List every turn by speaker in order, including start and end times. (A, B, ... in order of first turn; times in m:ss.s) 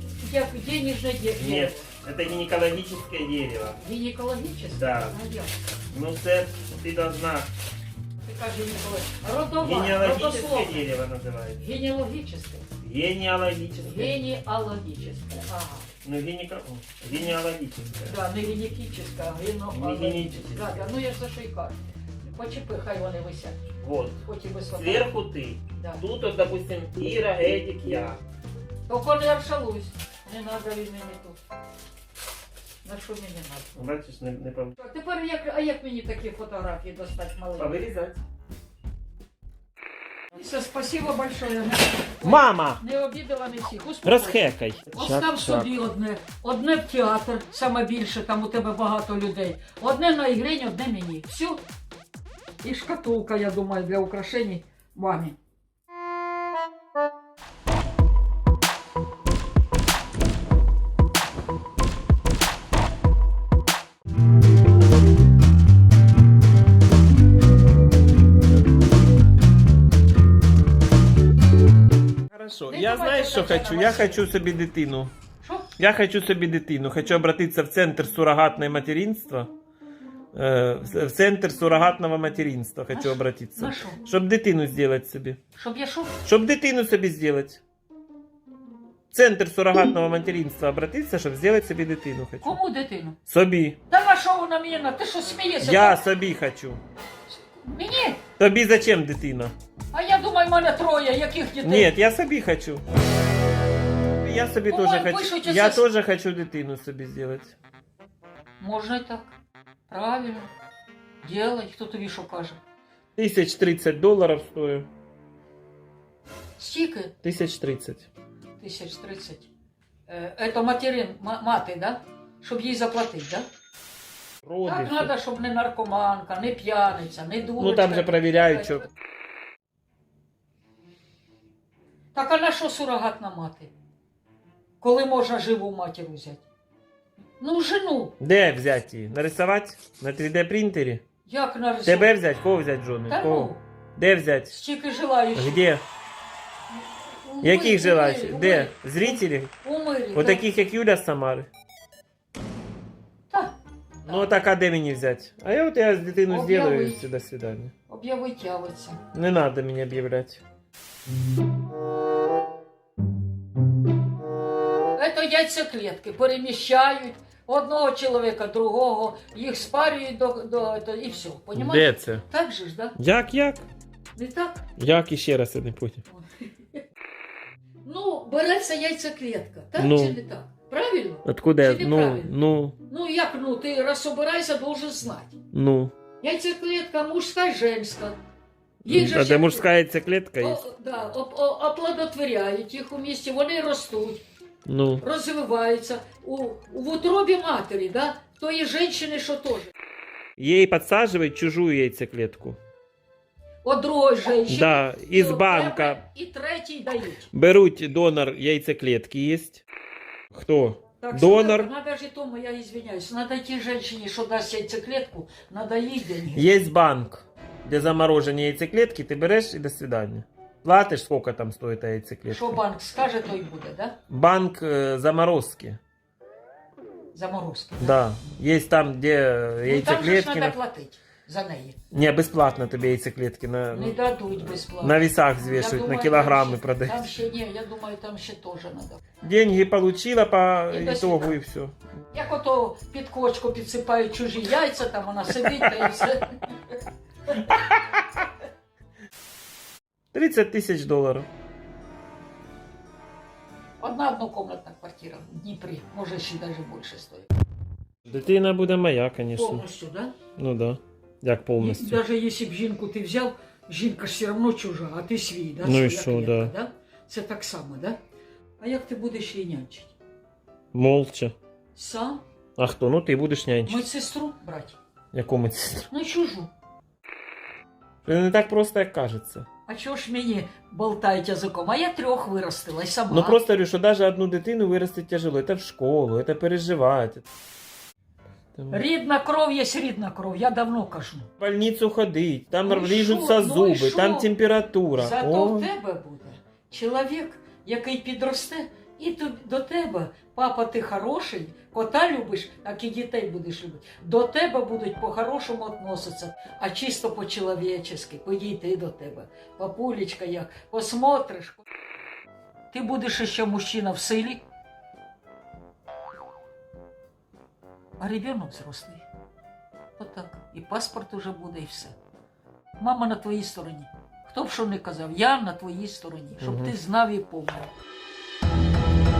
0:00.2-0:01.9 A
0:01.4-0:03.8 B
0:03.8-0:05.6 A
0:04.7-0:05.2 B
0:05.9-0:07.5 B
0:08.2-0:10.8 A
0:09.6-0:11.6 B
0:11.6-0:12.7 A
0:12.8-0:14.2 B
0:13.8-0:15.9 A
0:16.0-0:18.2 B
0:18.0-0:23.7 A
0:19.7-0:20.8 B
0:23.8-0:24.2 B
0:24.2-0:25.1 A
0:24.7-0:28.2 B
0:25.8-0:26.0 A
0:28.9-0:31.4 A
0:32.8-0:33.7 A
0:33.8-0:34.8 B
0:34.8-0:37.8 A
0:37.6-0:38.2 B
0:40.3-0:51.6 A
0:42.2-0:42.8 B
0:44.0-0:45.7 B
0:52.6-0:55.4 A
1:12.3-1:15.1 B
1:12.7-1:14.2 A
1:15.4-1:15.7 A
1:15.8-1:19.5 B
1:20.3-1:25.4 B
1:22.9-1:24.0 A
1:25.6-1:26.1 A
1:26.2-1:27.6 B
1:29.1-1:32.6 B
1:32.4-1:33.2 A
1:33.3-1:33.8 B
1:33.9-1:36.0 A
1:35.6-1:36.8 B
1:37.3-1:38.2 A
1:38.4-1:39.5 B
1:39.9-1:41.9 A
1:41.6-1:42.8 B
1:44.2-1:47.6 B
1:44.7-1:45.8 A
1:48.6-1:49.4 A
1:49.9-1:50.5 A
1:51.2-1:52.6 A
1:53.2-1:54.9 B
1:56.6-1:57.1 A
1:57.2-1:58.1 B
1:58.6-1:59.5 A
2:00.1-2:03.5 A
2:04.4-2:05.1 B
2:04.6-2:08.8 A
2:07.6-2:08.9 B
2:12.1-2:13.7 A
2:14.8-2:16.4 A
2:17.4-2:18.1 A
2:18.2-2:21.0 B
2:21.2-2:22.1 A
2:21.8-2:24.6 B
2:23.1-2:23.6 A
2:24.5-2:25.7 A
2:25.4-2:25.8 B
2:26.8-2:30.4 A
2:27.4-2:29.5 B
2:30.1-2:31.5 B
2:33.3-2:34.3 A
2:34.0-2:37.7 B
2:36.3-2:37.0 A
2:37.9-2:39.0 A
2:39.1-2:40.4 B
2:45.0-2:53.0 A
2:51.6-2:52.2 B
2:53.0-2:53.6 B
2:54.2-2:54.6 A
2:54.8-2:56.0 B
2:56.1-2:56.8 A
2:57.8-3:02.3 A
2:59.8-3:00.2 B
3:01.2-3:02.8 B
3:02.9-3:05.4 A
3:05.5-3:05.9 B
3:06.2-3:08.2 A
3:08.8-3:10.6 B
3:08.9-3:09.7 A
3:10.4-3:14.2 A
3:14.7-3:15.0 B
3:15.0-3:19.7 A
3:20.4-3:22.6 B
3:23.6-3:27.3 A
3:24.5-3:26.0 B
3:27.3-3:29.6 B
3:30.3-3:31.7 B
3:31.0-3:36.5 A
3:36.3-3:42.6 B
3:42.3-3:44.0 A
3:44.1-3:45.8 B
3:47.1-3:48.0 A
3:47.8-3:50.6 B
3:49.6-3:51.8 A
3:51.9-3:57.2 B
3:53.7-3:59.0 A
3:59.2-4:01.7 B
4:00.7-4:01.4 A
4:02.1-4:06.5 A
4:05.4-4:06.1 B
4:07.3-4:08.2 B
4:10.1-4:11.3 B
4:13.8-4:17.3 A
4:18.1-4:19.7 B
4:19.3-4:20.2 A
4:20.4-4:22.0 B
4:21.6-4:28.0 A
4:25.6-4:26.5 B
4:28.6-4:29.9 A
4:30.7-4:31.3 B
4:31.8-4:32.2 A
4:32.6-4:33.8 B
4:33.7-4:34.8 A
4:35.1-4:35.9 B
4:35.9-4:36.5 A
4:38.0-4:39.5 B
4:39.7-4:43.4 A
4:43.1-4:47.2 B
4:48.6-4:48.8 B
4:48.7-4:51.3 A
4:51.4-4:55.7 B
4:52.6-4:54.3 A
4:55.0-5:11.6 A
5:12.7-5:14.4 A
5:18.0-5:19.0 A
5:20.0-5:22.0 A
5:22.8-5:27.7 A
5:26.4-5:26.7 B